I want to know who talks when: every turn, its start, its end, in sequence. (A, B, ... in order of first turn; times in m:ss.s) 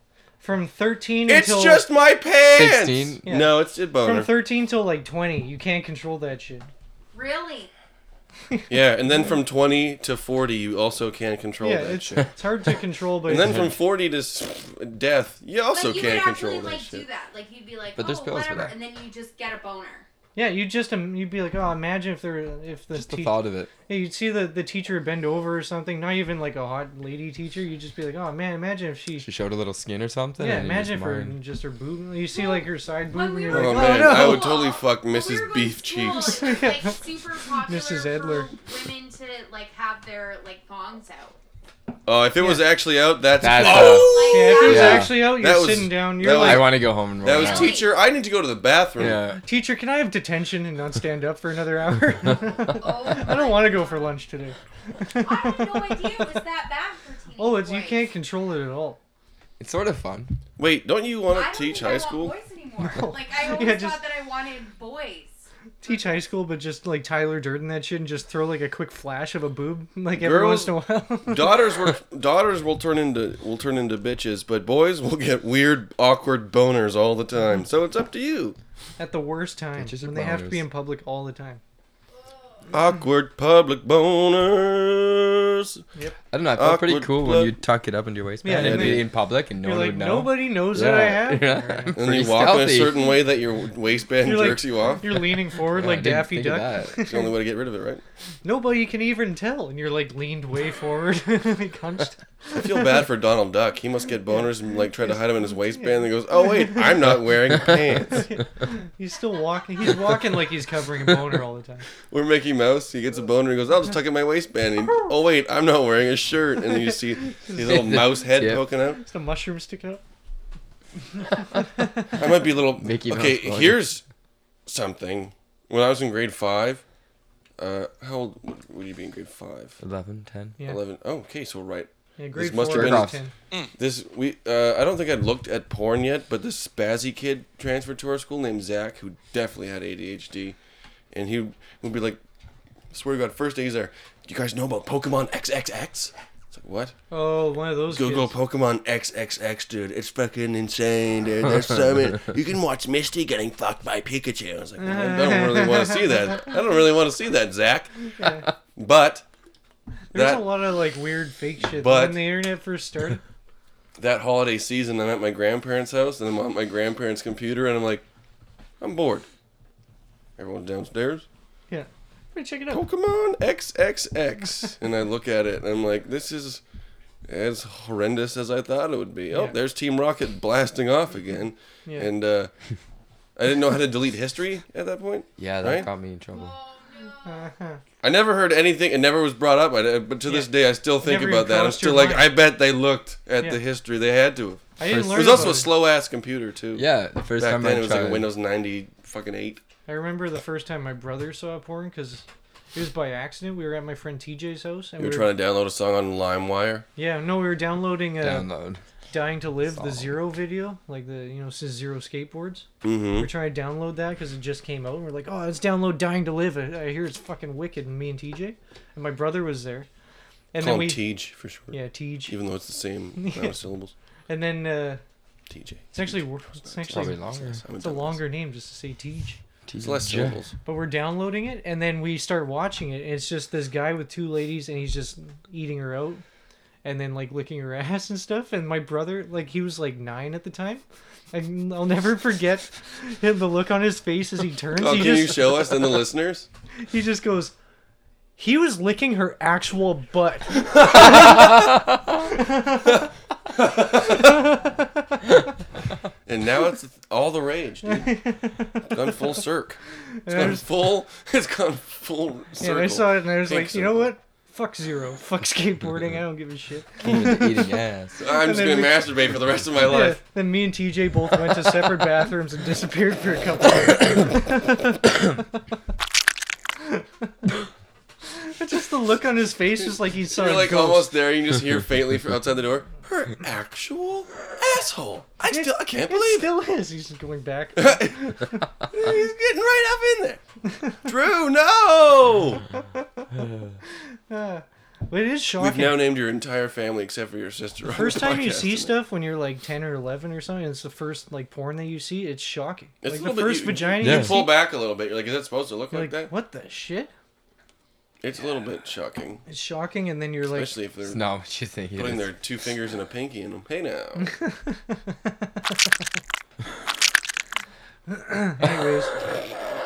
0:00.4-0:01.8 A
0:01.3-0:04.3 B
0:02.5-0:03.2 C
0:03.3-0:06.7 A
0:07.1-0:07.7 D
0:08.7-0:12.3 B
0:11.6-0:13.7 A
0:13.3-0:17.1 B
0:13.4-0:13.7 C
0:15.7-0:20.1 D
0:18.0-0:18.8 C
0:20.4-0:29.3 A
0:22.9-0:23.7 C
0:29.2-0:31.4 C
0:30.4-0:34.6 A
0:32.3-0:41.4 D
0:33.5-0:36.6 B
0:36.1-0:37.0 A
0:37.7-0:38.5 A
0:42.0-0:49.2 B
0:42.4-0:42.7 A
0:43.4-0:45.3 C
0:43.7-0:45.0 D
0:43.7-0:46.7 A
0:46.2-0:47.8 C
0:47.3-0:48.0 D
0:49.0-0:49.4 C
0:49.4-0:56.1 A
0:52.6-0:54.1 D
0:55.2-0:58.1 D
0:57.4-0:59.0 A
0:59.6-1:00.4 C
1:00.6-1:02.4 B
1:01.3-1:06.2 D
1:02.8-1:04.0 A
1:05.8-1:11.6 A
1:10.2-1:18.6 B
1:19.0-1:21.6 A
1:19.8-1:20.7 C
1:22.7-1:25.8 B
1:26.3-1:33.1 C
1:26.6-1:27.6 B
1:28.4-1:29.1 A
1:28.5-1:29.0 B
1:29.6-1:32.0 A
1:31.9-1:35.2 B
1:34.2-1:37.3 A
1:35.6-1:37.0 C
1:37.0-1:38.0 B
1:38.4-1:42.9 A
1:42.6-1:48.3 B
1:48.2-1:51.9 A
1:52.1-1:59.0 B
1:57.2-1:58.0 A
1:57.6-1:58.7 C
1:59.0-2:00.0 A
2:02.1-2:04.0 B
2:02.8-2:03.9 C
2:04.7-2:06.8 B
2:07.6-2:09.8 B
2:09.8-2:10.6 C
2:10.6-2:13.1 B
2:12.2-2:13.3 A
2:12.6-2:13.2 C
2:13.8-2:20.6 B
2:21.1-2:22.2 B
2:22.9-2:27.0 B
2:27.1-2:28.3 A
2:27.9-2:38.1 B
2:34.8-2:36.0 A
2:38.2-2:38.5 A
2:38.8-2:39.2 B
2:40.1-2:43.2 A
2:40.1-2:40.5 B
2:41.7-2:42.4 B
2:44.0-2:48.0 B
2:48.8-2:49.3 B
2:50.4-2:51.3 B
2:51.7-2:52.8 A
2:52.7-2:56.6 B
2:57.3-3:02.5 B
2:59.3-2:59.6 A
3:03.4-3:05.9 B
3:05.4-3:06.6 C
3:06.3-3:07.4 D
3:07.2-3:07.8 A
3:08.0-3:19.6 B
3:10.2-3:12.3 A
3:14.8-3:15.7 A
3:14.9-3:15.6 C
3:16.7-3:18.3 C
3:19.9-3:25.3 A
3:25.0-3:26.9 B
3:27.0-3:28.5 A
3:28.2-3:28.8 C
3:29.1-3:39.9 A
3:29.7-3:30.2 C
3:32.8-3:33.3 B
3:40.5-3:41.0 A
3:40.6-3:43.9 B
3:41.7-3:42.4 A
3:43.2-3:43.6 A
3:44.3-3:45.0 A
3:45.5-3:48.2 B
3:45.9-3:47.2 A
3:46.9-3:47.6 C
3:47.8-3:49.4 A
3:49.7-3:50.4 C
3:49.8-3:50.5 B
3:50.6-3:56.2 A
3:56.8-4:05.8 A
4:04.7-4:06.5 B
4:06.9-4:07.5 A
4:08.4-4:11.6 A
4:12.3-4:13.0 A
4:13.6-4:14.5 B
4:14.4-4:14.8 A
4:16.3-4:18.2 B
4:17.9-4:18.8 A
4:18.8-4:24.1 B
4:20.2-4:20.6 A
4:22.6-4:27.7 A
4:27.0-4:28.2 C
4:28.2-4:30.2 B
4:28.3-4:29.2 A
4:29.8-4:35.4 A
4:38.3-4:41.1 A
4:40.3-4:46.5 B
4:45.5-4:48.7 A
4:47.8-4:50.4 B
4:51.0-4:52.6 B
4:53.0-4:53.2 A
4:54.3-4:56.0 A
4:55.6-4:58.9 B
4:57.9-5:04.5 A
5:03.0-5:06.3 B
5:04.0-5:04.4 C
5:05.9-5:07.1 A
5:08.2-5:09.4 B
5:09.5-5:10.8 A
5:10.5-5:11.3 B
5:11.0-5:12.3 C
5:12.0-5:14.4 B
5:14.3-5:15.1 A
5:18.1-5:19.1 A